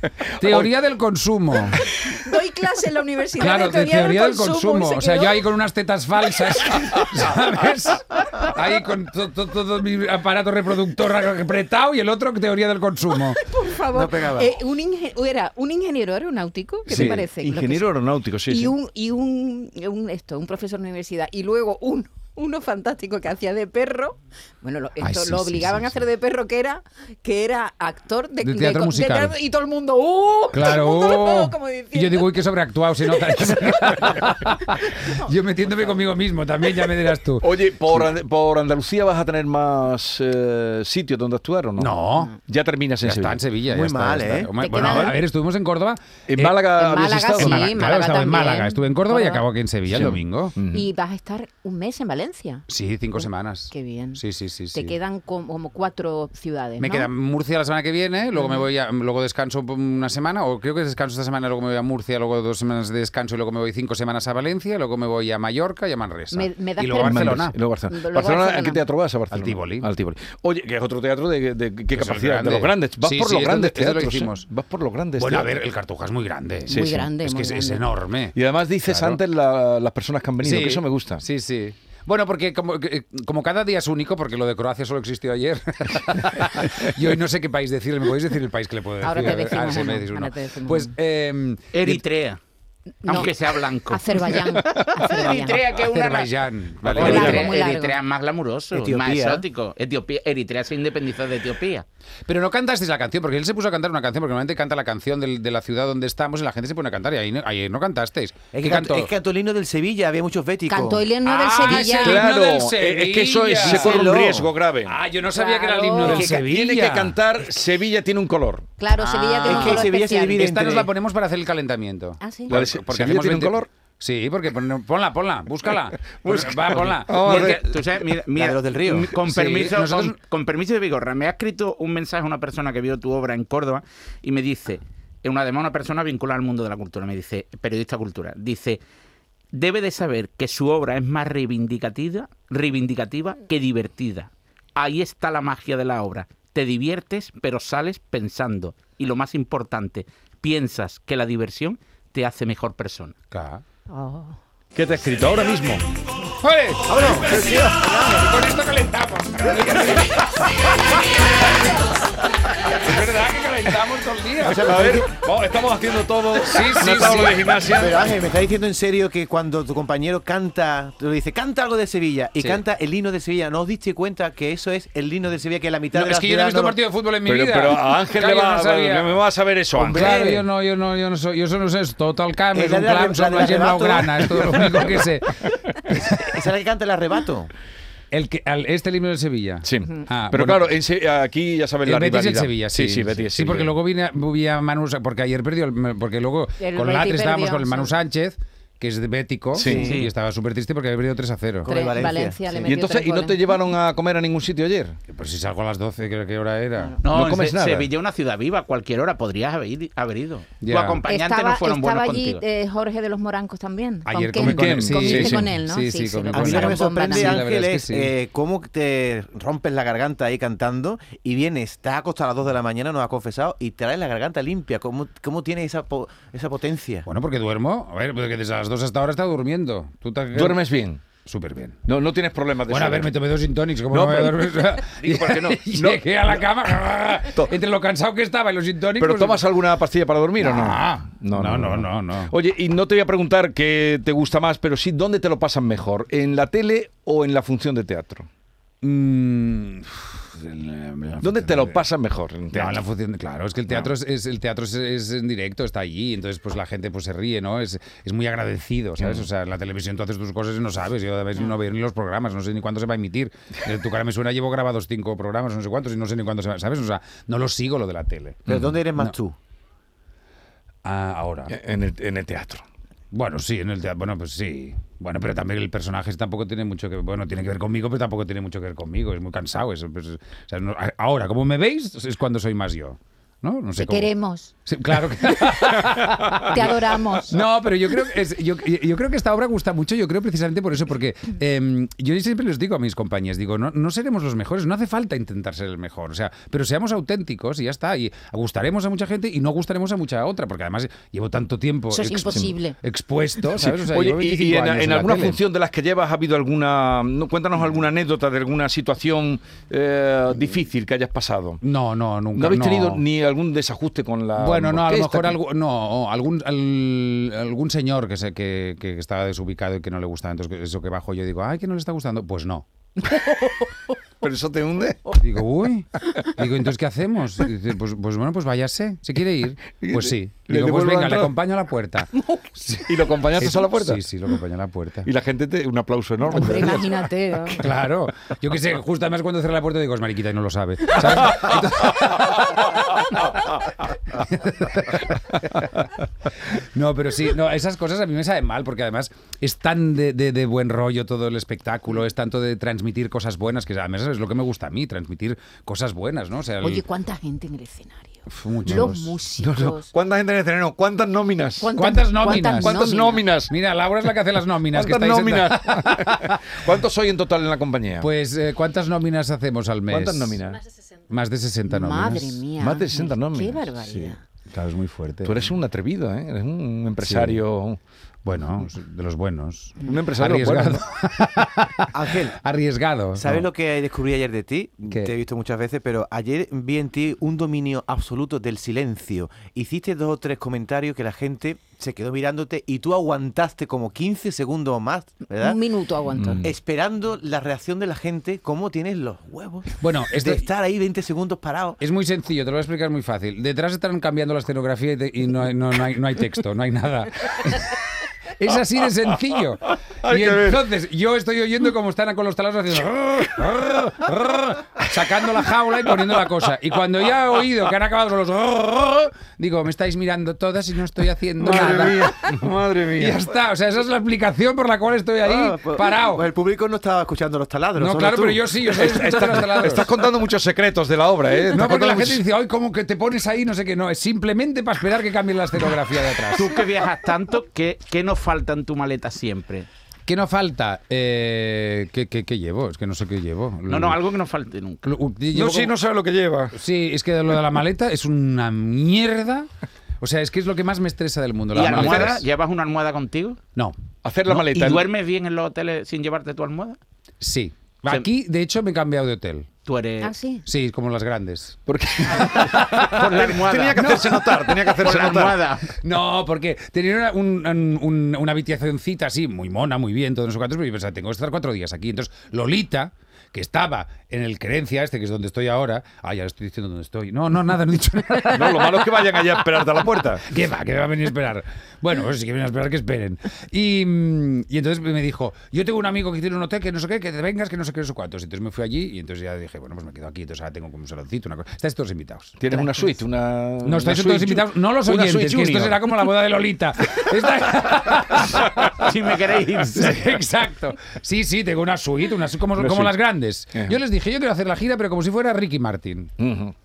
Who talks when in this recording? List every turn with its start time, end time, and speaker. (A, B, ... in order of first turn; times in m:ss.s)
0:00.2-0:00.7 A
0:00.4-0:01.9 B
0:01.9-0:05.5 C
0:03.4-0:13.4 B
0:13.4-0:17.9 C
0:13.9-0:14.6 D
0:16.8-0:18.7 A
0:16.9-0:17.2 B
0:18.4-0:32.4 C
0:25.0-0:26.0 B
0:28.4-0:29.3 B
0:30.5-0:38.0 B
0:33.1-0:35.9 C
0:37.4-0:43.4 A
0:41.8-0:42.3 B
0:43.0-0:46.6 B
0:43.6-0:44.9 D
0:44.6-0:45.2 C
0:46.3-0:47.7 A
0:46.7-0:49.4 C
0:47.4-0:50.5 B
0:49.9-0:50.9 A
0:50.7-0:52.6 C
0:52.7-0:55.0 B
0:53.7-0:57.1 C
0:56.8-1:07.6 B
0:58.4-0:58.6 C
1:06.3-1:08.8 C
1:07.0-1:15.5 A
1:09.3-1:09.9 B
1:11.9-1:14.5 B
1:15.2-1:19.2 B
1:16.7-1:17.0 A
1:16.7-1:17.8 C
1:18.3-1:21.2 A
1:20.4-1:32.0 B
1:29.0-1:30.9 C
1:31.7-1:32.4 E
1:33.0-1:33.3 C
1:33.0-1:34.3 E
1:33.9-1:35.6 C
1:34.9-1:36.3 E
1:35.8-1:37.5 B
1:36.8-1:41.8 E
1:36.9-1:38.0 C
1:37.0-1:37.4 D
1:38.7-1:39.4 D
1:42.3-1:49.1 B
1:48.5-1:51.0 D
1:50.7-1:52.2 C
1:51.2-1:54.3 B
1:51.7-1:55.0 A
1:53.6-1:54.5 D
1:54.8-1:57.2 B
1:55.3-1:56.3 C
1:56.0-1:58.7 A
1:58.8-2:00.5 C
1:59.0-2:07.6 B
1:59.4-2:00.9 D
2:02.2-2:02.6 C
2:02.5-2:03.7 A
2:06.0-2:07.7 A
2:07.1-2:18.8 E
2:08.3-2:09.1 D
2:09.1-2:10.2 B
2:19.5-2:33.1 E
2:33.3-2:33.6 B
2:33.9-2:34.4 C
2:34.8-2:35.8 B
2:36.4-2:41.0 B
2:36.8-2:38.3 D
2:42.7-2:44.8 B
2:44.4-2:45.1 D
2:44.6-2:48.0 A
2:46.4-2:47.5 B
2:47.6-2:56.8 D
2:55.9-2:59.2 B
2:57.2-3:00.4 A
2:59.8-3:00.4 D
2:59.8-3:06.4 B
3:02.5-3:05.0 D
3:05.9-3:07.5 D
3:08.1-3:10.7 B
3:09.6-3:13.7 A
3:11.8-3:21.7 B
3:16.6-3:17.9 C
3:19.5-3:19.9 A
3:19.6-3:20.0 D
3:19.7-3:20.1 E
3:21.6-3:22.6 D
3:21.6-3:23.4 C
3:22.6-3:25.0 A
3:25.1-3:27.0 B
3:27.0-3:32.4 E
3:27.1-3:27.9 A
3:30.6-3:31.0 B
3:31.1-3:37.4 C
3:34.0-3:38.1 B
3:34.4-3:35.5 A
3:36.3-3:47.1 D
3:47.0-3:50.6 B
3:50.3-3:51.0 A
3:51.2-3:51.8 B
3:51.8-3:53.1 A
3:52.7-3:59.4 B
3:53.9-3:56.4 A
3:59.0-4:08.3 A
4:00.4-4:02.3 B
4:08.8-4:11.8 B
4:11.2-4:12.8 A
4:12.5-4:29.1 B
4:28.5-4:29.3 D
4:28.5-4:28.7 A
4:30.8-4:31.6 B
4:31.5-4:32.6 A
4:33.1-4:44.1 B
4:43.8-4:44.5 C
4:44.6-5:05.4 B
4:46.4-4:47.4 C
5:01.9-5:02.8 C
5:03.5-5:11.6 A
5:11.6-5:13.0 B
5:12.4-5:15.4 A
5:14.4-5:22.6 B
5:24.2-5:25.2 A
5:25.2-5:35.1 B
5:29.8-5:31.3 A
5:32.7-5:34.0 A
5:35.0-5:37.1 A
5:36.3-5:37.6 C
5:37.5-5:43.2 B
5:41.2-5:42.2 A
5:44.1-5:45.9 B
5:46.5-5:56.8 B
5:56.6-5:59.9 C
5:58.3-5:59.1 B
5:58.7-6:01.7 A
6:01.6-6:03.3 C
6:01.7-6:02.8 B
6:02.4-6:03.5 A
6:03.5-6:06.6 B
6:04.7-6:08.1 A
6:08.0-6:10.4 B
6:09.9-6:10.6 A
6:11.1-6:12.4 B
6:11.7-6:14.2 C
6:12.5-6:14.1 A
6:14.5-6:15.5 B
6:15.2-6:17.8 A
6:17.0-6:17.4 B
6:18.2-6:23.4 B
6:19.8-6:20.8 A
6:21.9-6:22.4 D
6:23.2-6:35.6 D
6:24.9-6:25.1 B
6:35.3-6:36.5 C
6:36.2-6:36.4 A
6:36.4-6:41.8 D
6:39.8-6:40.5 B
6:41.8-6:47.8 B
6:48.4-7:06.3 B
6:50.0-6:50.6 A
7:01.4-7:03.2 A
7:05.2-7:09.2 D
7:07.8-7:09.9 B
7:08.7-7:12.2 A
7:11.5-7:16.5 B
7:16.3-7:19.7 E
7:20.0-7:24.0 B
7:23.7-7:24.8 E
7:24.8-7:25.7 B
7:25.3-7:26.5 A
7:26.5-7:32.2 B
7:31.5-7:33.4 E
7:31.7-7:32.1 A
7:33.6-7:34.4 B
7:34.0-7:34.9 A
7:34.3-7:36.8 E
7:37.2-7:39.5 B
7:39.6-7:40.1 E
7:40.0-7:40.4 C
7:40.4-7:41.6 B
7:41.7-7:45.4 A
7:42.2-7:43.0 B
7:42.3-7:45.7 E
7:43.7-7:59.1 B
7:58.2-8:00.3 A
8:00.2-8:12.7 B
8:12.4-8:16.1 A
8:13.6-8:18.9 B
8:18.7-8:20.0 E
8:19.6-8:26.1 B
8:22.6-8:22.9 A
8:26.2-8:26.5 A